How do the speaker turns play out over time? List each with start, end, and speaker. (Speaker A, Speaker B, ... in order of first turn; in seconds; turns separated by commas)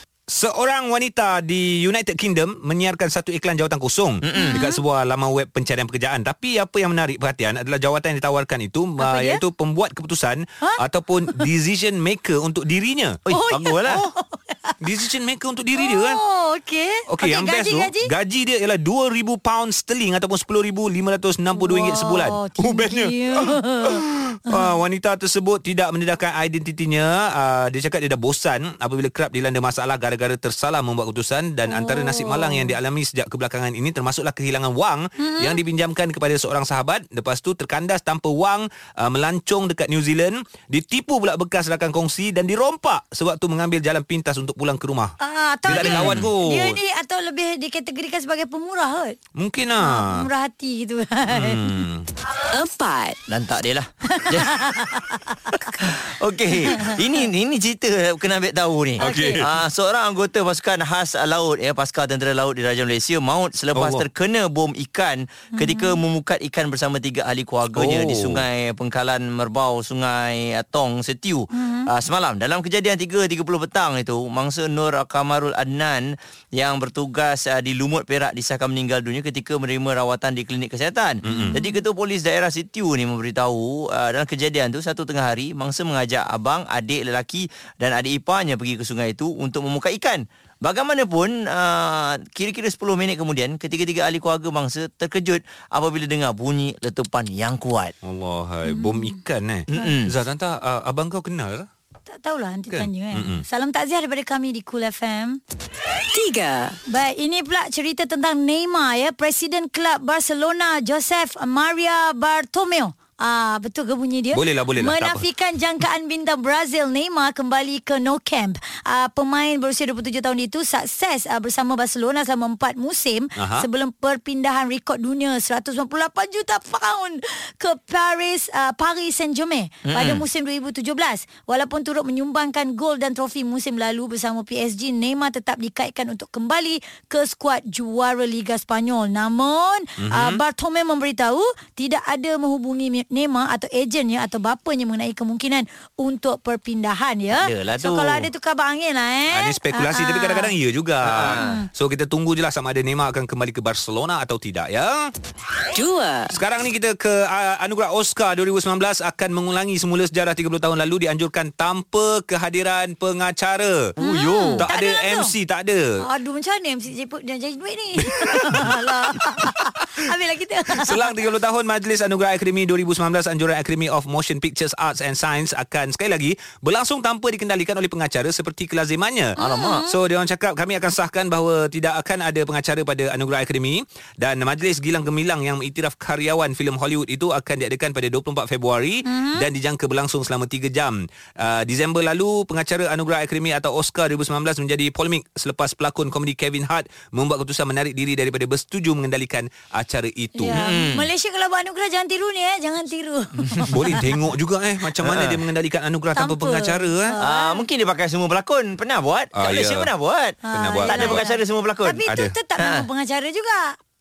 Speaker A: 0.3-13.2, Speaker B: 4.2-4.6, Speaker C: 4.3-4.8, Speaker C: 9.0-9.4, Speaker B: 13.2-14.0, Speaker C: 13.3-14.8, Speaker A: 14.8-16.2, Speaker C: 15.8-18.1, Speaker A: 17.1-45.1, Speaker C: 21.5-24.7, Speaker C: 31.7-32.8, Speaker C: 35.2-35.6, Speaker C: 45.2-49.2, Speaker B: 45.7-46.3, Speaker A: 45.7-46.8, Speaker A: 49.4-50.3, Speaker C: 49.8-51.6, Speaker A: 51.3-52.1, Speaker D: 52.5-53.2, Speaker B: 53.3-55.0, Speaker C: 54.1-55.7, Speaker B: 55.5-97.9, Speaker C: 56.6-57.0, Speaker C: 59.0-59.4, Speaker A: 59.0-59.5, Speaker A: 63.7-64.0, Speaker C: 65.5-66.0, Speaker A: 67.7-68.4, Speaker C: 71.5-71.9, Speaker A: 81.2-81.6, Speaker C: 81.3-81.8, Speaker A: 98.0-101.7, Speaker C: 98.7-99.1, Speaker B: 99.7-100.1, Speaker C: 102.1-105.4, Speaker A: 102.7-103.4, Speaker D: 106.1-106.8, Speaker C: 106.9-150.5, Speaker A: 114.3-115.2, Speaker A: 123.3-123.7, Speaker B: 129.8-130.2, Speaker A: 140.0-140.4, Speaker B: 147.3-148.3, Speaker A: 149.3-155.1, Speaker B: 151.0-151.6, Speaker C: 151.3-151.7, Speaker D: 155.7-156.3, Speaker A: 156.3-163.9, Speaker C: 164.0-165.3, Speaker B: 164.0-164.7, Speaker A: 164.6-165.9, Speaker C: 166.0-171.1, Speaker A: 168.2-168.9, Speaker A: 170.7-200.6, Speaker C: 179.4-179.9, Speaker B: 179.4-179.8, Speaker C: 189.1-189.4, Speaker C: 200.4-203.9, Speaker B: 200.5-201.1, Speaker A: 203.7-207.2, Speaker B: 205.0-205.4, Speaker C: 206.2-207.6, Speaker B: 207.2-212.0, Speaker A: 209.3-209.9, Speaker C: 210.4-213.8, Speaker A: 210.5-211.2, Speaker A: 212.1-212.3, Speaker B: 212.6-212.8